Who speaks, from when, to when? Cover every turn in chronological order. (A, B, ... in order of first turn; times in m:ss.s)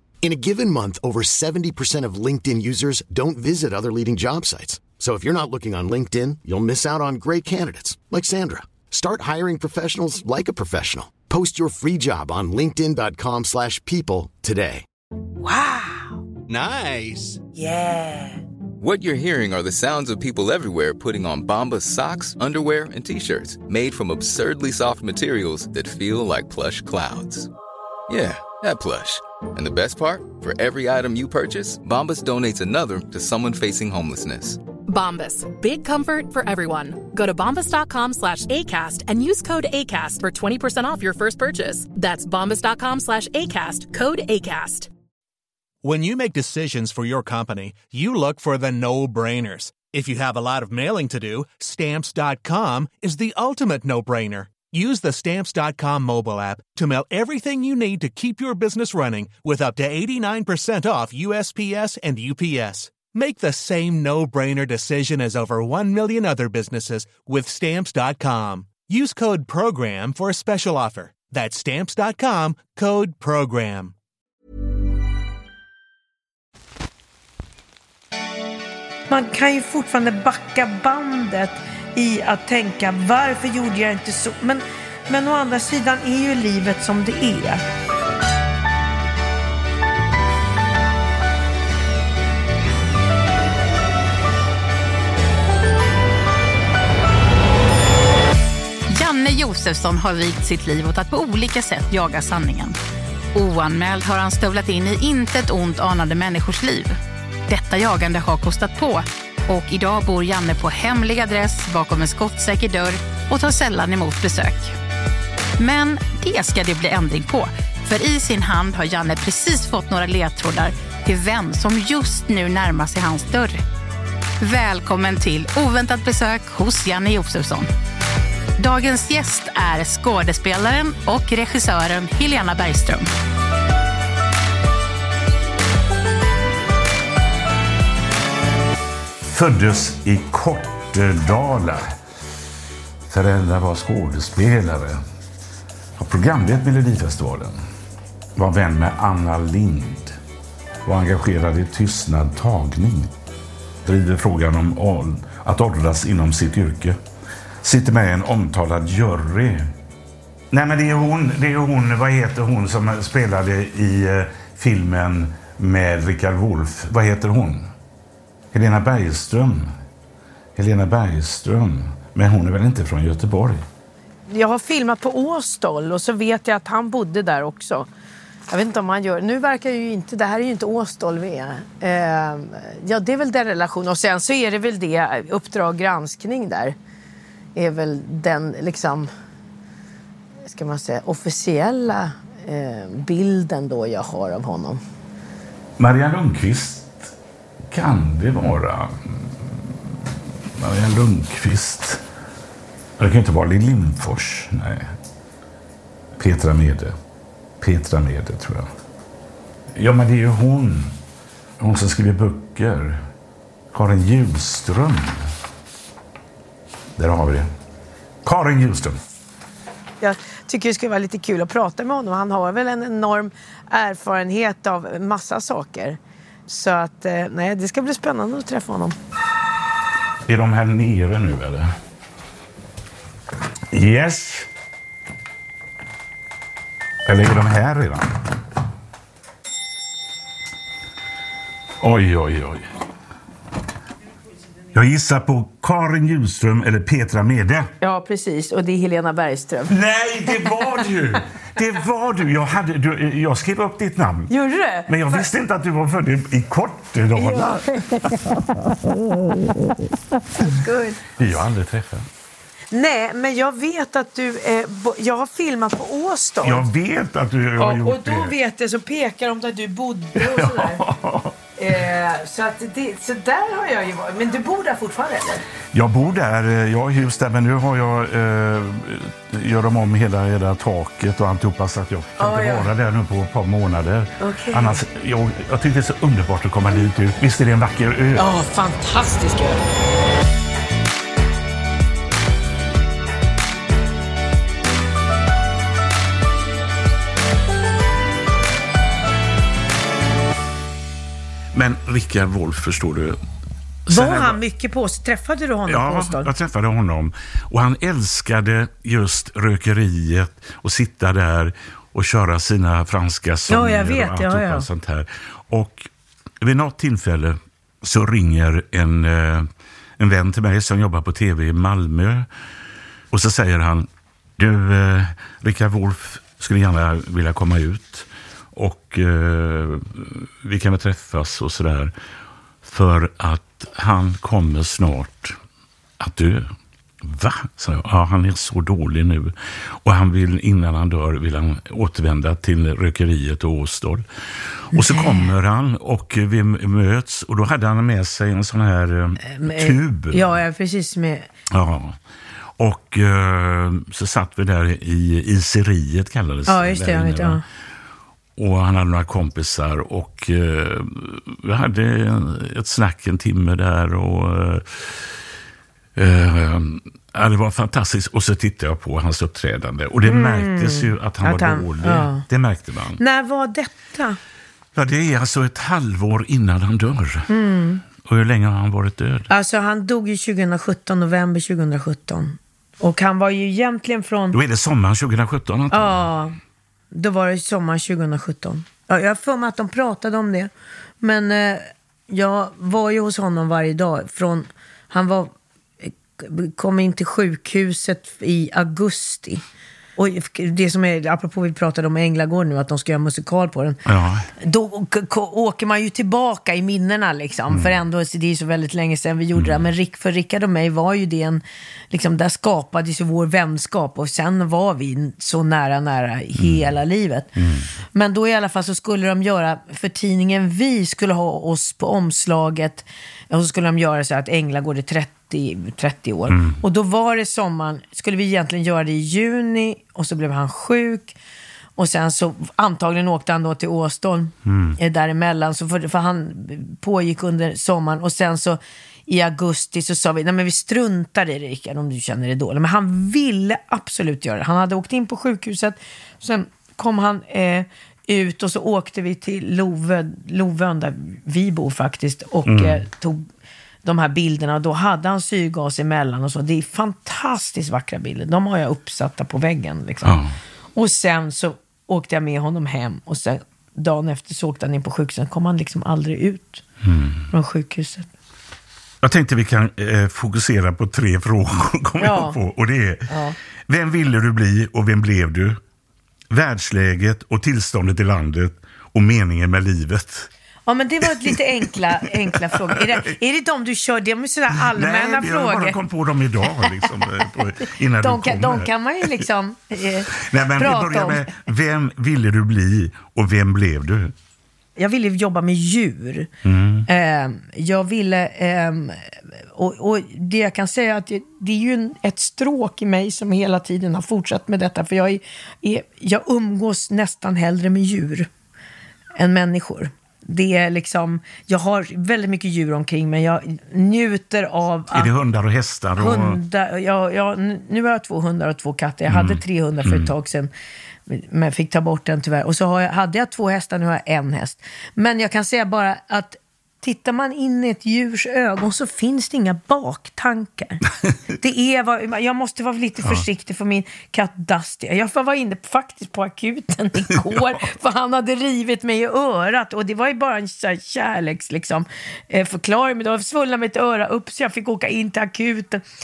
0:00.2-0:14.8 A
0:15.4-0:16.2 B
0:16.5-0:17.4 C
0:17.6-0:18.4 B
0:18.8-0:27.5 D
0:28.1-0:34.6 D
0:34.9-0:44.9 E
0:45.8-1:13.9 C
1:19.1-1:27.6 B
1:38.9-1:42.8 F
1:43.4-1:47.0 F
1:47.5-1:54.8 F
1:55.6-2:03.6 F
2:04.4-2:07.7 F
2:08.6-2:13.1 F
2:19.2-2:21.9 G
2:23.1-2:25.0 G
2:26.0-2:27.6 G
2:28.4-2:30.2 G
2:30.8-2:33.1 G
2:33.8-2:37.0 G
2:37.6-2:39.7 G
2:40.5-2:47.7 G
2:48.5-2:49.7 G
2:50.6-2:53.6 G
2:54.3-2:57.9 B
2:58.5-3:06.8 B
3:07.6-3:09.1 B
3:10.4-3:14.8 B
3:15.8-3:17.1 G
3:17.7-3:22.0 G
3:23.0-3:24.9 G
3:26.2-3:27.0 G
3:27.6-3:28.7 G
3:29.7-3:31.0 G
3:31.6-3:33.0 G
3:33.7-3:35.3 G
3:37.0-3:37.5 G
3:38.2-3:39.0 G
3:40.0-3:49.0 B
3:50.3-3:51.8 G
3:53.7-3:54.5 G
3:57.0-3:58.2 G
4:01.8-4:02.7 G
4:04.7-4:07.7 G
4:07.8-4:09.8 B
4:09.7-4:14.3 G
4:10.3-4:10.6 B
4:14.3-4:15.3 B
4:14.9-4:17.6 G
4:17.2-4:18.4 B
4:20.4-4:21.2 B
4:21.2-4:22.1 G
4:22.7-4:26.7 B
4:26.4-4:28.4 G
4:27.6-4:30.8 B
4:30.2-4:31.4 G
4:31.6-4:35.4 B
4:35.7-4:48.3 G
4:42.2-4:42.7 B
4:44.2-4:44.8 B
4:48.2-4:49.6 B
5:01.5-5:03.2 G
5:03.9-5:04.4 G
5:03.9-5:06.3 B
5:05.7-5:15.9 G
5:13.5-5:14.7 B
5:16.4-5:19.5 G
5:20.0-5:22.3 G
5:23.1-5:31.9 G
5:32.6-5:35.4 G
5:36.0-5:36.5 G
5:37.0-5:44.1 G
5:44.7-5:50.4 G
5:44.7-5:45.3 B
5:49.2-5:51.3 B
5:51.5-5:52.0 G
5:52.6-5:57.4 G
5:56.5-5:57.4 B
5:58.4-6:05.1 G
6:06.0-6:13.0 G
6:10.0-6:12.2 B
6:13.0-6:14.2 B
6:14.8-6:17.3 G
6:17.3-6:17.8 B
6:18.0-6:19.3 G
6:19.3-6:24.4 B
6:24.3-6:26.1 G
6:25.7-6:26.4 B
6:26.9-6:30.5 B
6:31.0-6:35.3 B
6:35.8-6:39.4 B
6:40.0-6:43.8 B
6:43.9-6:44.3 G
6:44.4-6:57.4 B
6:47.5-6:47.8 G
6:49.4-6:49.7 G
6:56.4-6:56.8 G
6:57.4-6:57.7 G
6:57.9-7:11.2 B
7:06.3-7:06.6 G
7:11.8-7:33.2 B
7:14.5-7:14.8 G
7:32.4-7:32.8 G
7:33.8-7:40.2 B
7:40.0-7:40.3 G
7:40.8-7:46.6 B
7:46.8-7:47.3 G
7:47.3-7:48.1 B
7:49.0-7:53.1 G
7:52.0-7:52.4 B
7:53.1-7:53.4 B
7:53.7-7:55.6 G
7:56.3-8:00.3 G
8:00.7-8:05.8 B
8:01.1-8:01.4 G
8:02.0-8:03.1 G
8:04.5-8:09.2 G
8:08.0-8:11.3 B
8:10.2-8:14.1 G
8:14.8-8:16.3 B
8:16.4-8:16.9 G
8:16.9-8:19.0 B
8:19.6-8:28.3 B
8:29.2-8:35.1 B
8:34.9-8:36.4 G
8:36.0-8:40.5 B
8:39.1-8:40.1 G
8:41.1-9:05.8 B
8:57.2-8:57.6 G